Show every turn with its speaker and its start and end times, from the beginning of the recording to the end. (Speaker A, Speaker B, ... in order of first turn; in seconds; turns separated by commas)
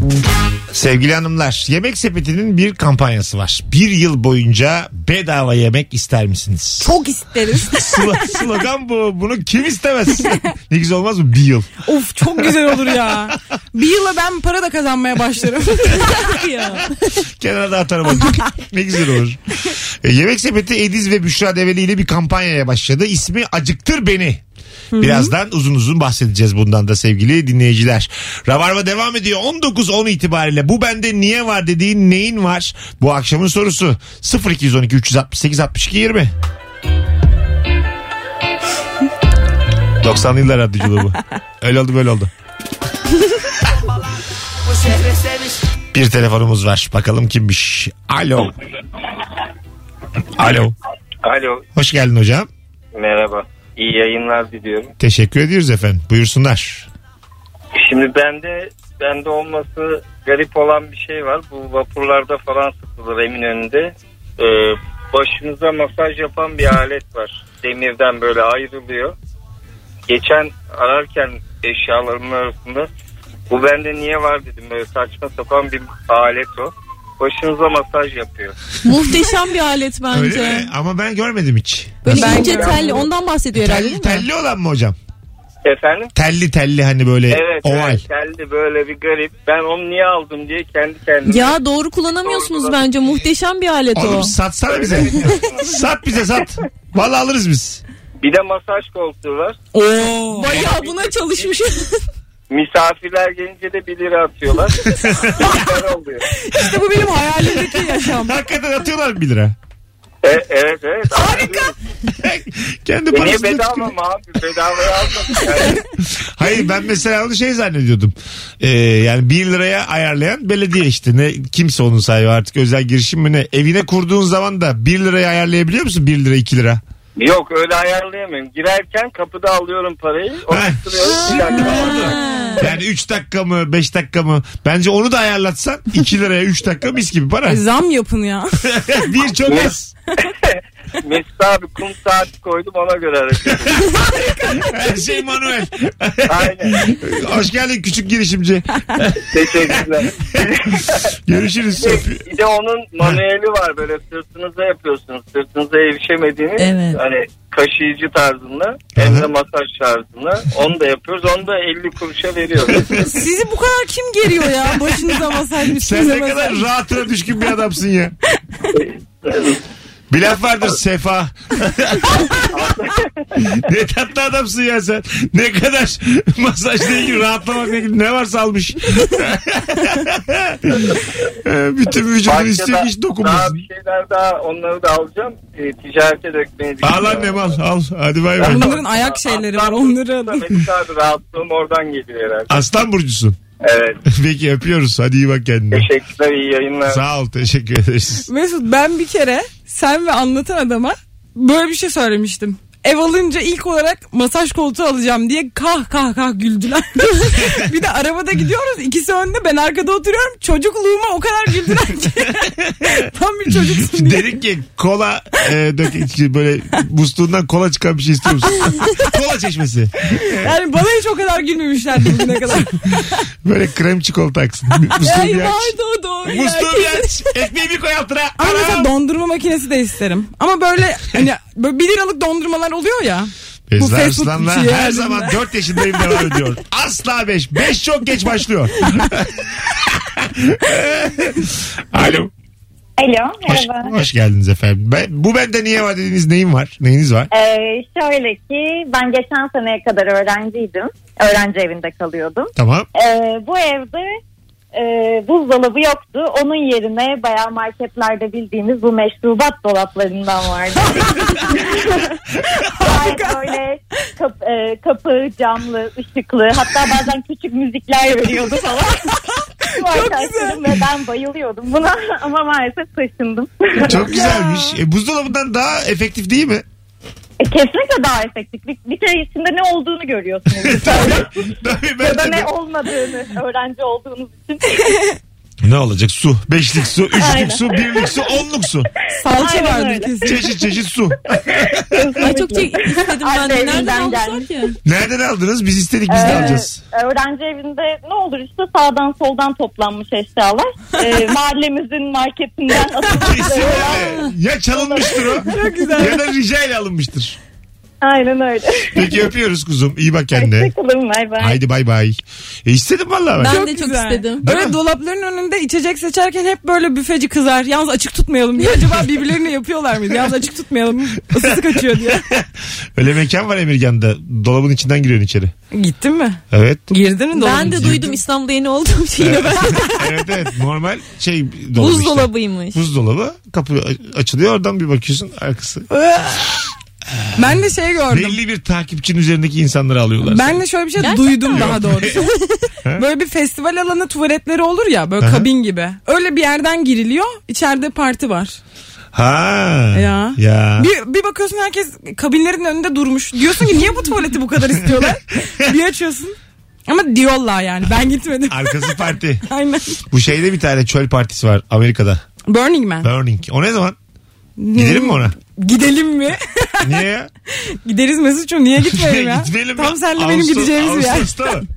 Speaker A: 0.7-6.9, Speaker B: 6.8-8.2, Speaker A: 7.7-11.7, Speaker B: 11.8-16.2, Speaker A: 12.2-13.3, Speaker C: 16.0-17.0, Speaker A: 17.3-24.4, Speaker B: 24.9-25.3, Speaker A: 25.0-36.3, Speaker A: 40.0-42.3, Speaker A: 45.9-48.5, Speaker A: 50.4-50.8, Speaker D: 51.2-51.6, Speaker A: 51.8-52.5, Speaker D: 53.0-54.9, Speaker A: 55.0-56.9, Speaker D: 57.8-69.1, Speaker D: 70.1-72.9, Speaker D: 73.5-78.5, Speaker C: 78.8-80.7, Speaker A: 80.1-82.5, Speaker C: 82.0-84.2, Speaker B: 82.1-83.1, Speaker D: 82.4-83.0, Speaker A: 83.5-85.0, Speaker D: 85.7-86.1, Speaker A: 86.2-88.0, Speaker D: 87.3-91.6, Speaker C: 91.2-94.3, Speaker D: 92.2-93.3, Speaker A: 94.0-97.8, Speaker D: 94.7-95.8, Speaker D: 98.2-99.6, Speaker B: 99.7-100.5, Speaker C: 100.3-102.0, Speaker D: 100.5-101.5, Speaker D: 102.5-104.8, Speaker A: 105.0-105.5, Speaker D: 105.4-106.2, Speaker B: 106.4-108.4, Speaker A: 107.4-109.6, Speaker D: 110.2-111.7, Speaker B: 111.2-111.6, Speaker A: 112.2-113.9, Speaker D: 113.1-115.8, Speaker A: 116.0-126.8, Speaker D: 127.2-132.2, Speaker A: 130.5-137.6, Speaker C: 131.4-132.6, Speaker B: 137.4-138.6, Speaker A: 138.6-139.9, Speaker D: 139.4-143.8, Speaker A: 143.5-149.8, Speaker D: 146.3-146.9, Speaker D: 149.2-151.1, Speaker A: 151.3-152.3, Speaker D: 151.8-163.0, Speaker C: 156.6-157.0, Speaker A: 158.9-159.3, Speaker B: 163.0-166.6, Speaker A: 164.6-165.1, Speaker A: 165.7-168.1, Speaker D: 168.8-169.6, Speaker A: 170.1-172.7, Speaker D: 172.5-173.0, Speaker A: 173.4-183.6, Speaker D: 182.3-187.5, Speaker A: 186.8-188.8, Speaker B: 188.4-190.4, Speaker D: 188.4-192.6, Speaker A: 192.5-193.4, Speaker D: 193.6-194.0, Speaker A: 194.1-195.9, Speaker D: 195.7-197.0, Speaker A: 196.9-198.3, Speaker B: 198.3-214.3, Speaker A: 212.0-220.6, Speaker B: 220.3-223.2, Speaker A: 223.4-228.9, Speaker C: 225.0-227.2, Speaker B: 228.4-235.4, Speaker A: 233.7-242.3, Speaker E: 243.0-244.0, Speaker A: 243.4-247.3, Speaker E: 247.3-254.2, Speaker A: 252.6-252.9, Speaker E: 254.7-274.1, Speaker B: 261.2-261.5, Speaker B: 262.9-263.4, Speaker B: 269.6-270.7, Speaker A: 273.8-276.6, Speaker E: 277.4-284.9, Speaker A: 280.5-282.5, Speaker B: 284.8-285.1, Speaker A: 285.6-288.9, Speaker E: 287.2-288.2, Speaker B: 289.2-290.4, Speaker E: 289.3-290.5, Speaker A: 290.2-292.3, Speaker E: 291.5-294.7, Speaker C: 292.2-294.8, Speaker A: 294.9-296.8, Speaker E: 296.1-305.5, Speaker A: 303.1-307.4, Speaker B: 305.5-306.1, Speaker E: 308.0-309.2, Speaker A: 308.9-310.7, Speaker E: 310.3-311.6, Speaker A: 311.4-313.6, Speaker C: 313.4-314.5, Speaker B: 313.4-322.3, Speaker A: 314.4-314.8, Speaker A: 321.4-325.5, Speaker B: 325.7-328.1, Speaker A: 326.5-326.9, Speaker C: 327.3-330.1, Speaker A: 327.7-328.1, Speaker A: 329.2-335.9, Speaker C: 331.8-332.8, Speaker B: 335.9-336.6, Speaker A: 337.1-337.6, Speaker B: 337.4-338.4, Speaker A: 338.1-340.6, Speaker B: 340.2-342.3, Speaker C: 341.0-342.7, Speaker A: 341.5-342.2, Speaker B: 343.0-348.6, Speaker A: 345.2-345.5, Speaker A: 349.1-350.9, Speaker B: 349.9-356.4, Speaker A: 354.8-355.1, Speaker B: 356.9-360.0, Speaker A: 358.5-359.5, Speaker A: 360.1-362.2, Speaker B: 362.5-363.1, Speaker A: 363.0-364.0, Speaker B: 364.6-371.4, Speaker A: 364.8-365.4, Speaker A: 366.8-367.3, Speaker A: 368.8-371.7